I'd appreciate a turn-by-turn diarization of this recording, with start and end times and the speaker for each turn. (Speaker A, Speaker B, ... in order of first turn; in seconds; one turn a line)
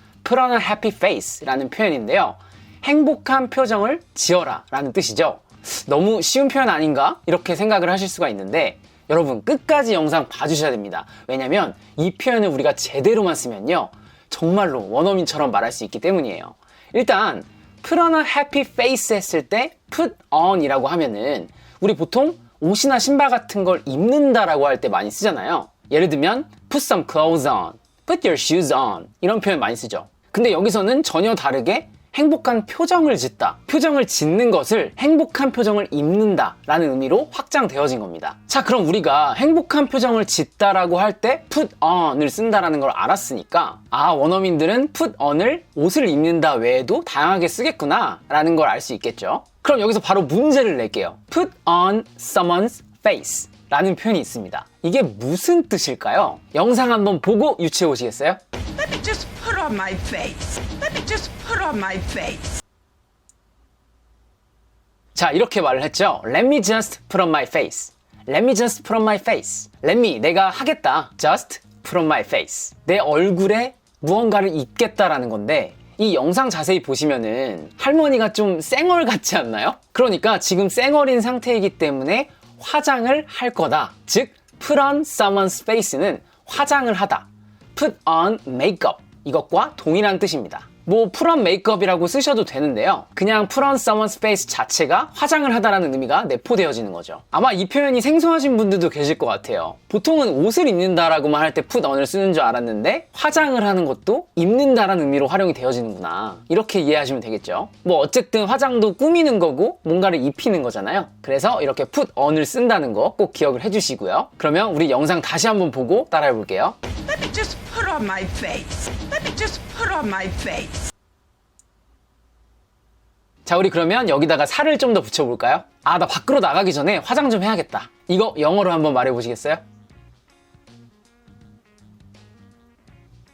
Speaker A: 0.2-58.4
Speaker A: 59.1-59.5
Speaker B: 59.5-60.2
Speaker A: 60.1-60.6
Speaker B: 61.8-62.2
Speaker A: 65.1-116.8
Speaker B: 117.5-118.5
Speaker A: 118.3-120.7
Speaker B: 120.0-120.3
Speaker A: 123.5-129.6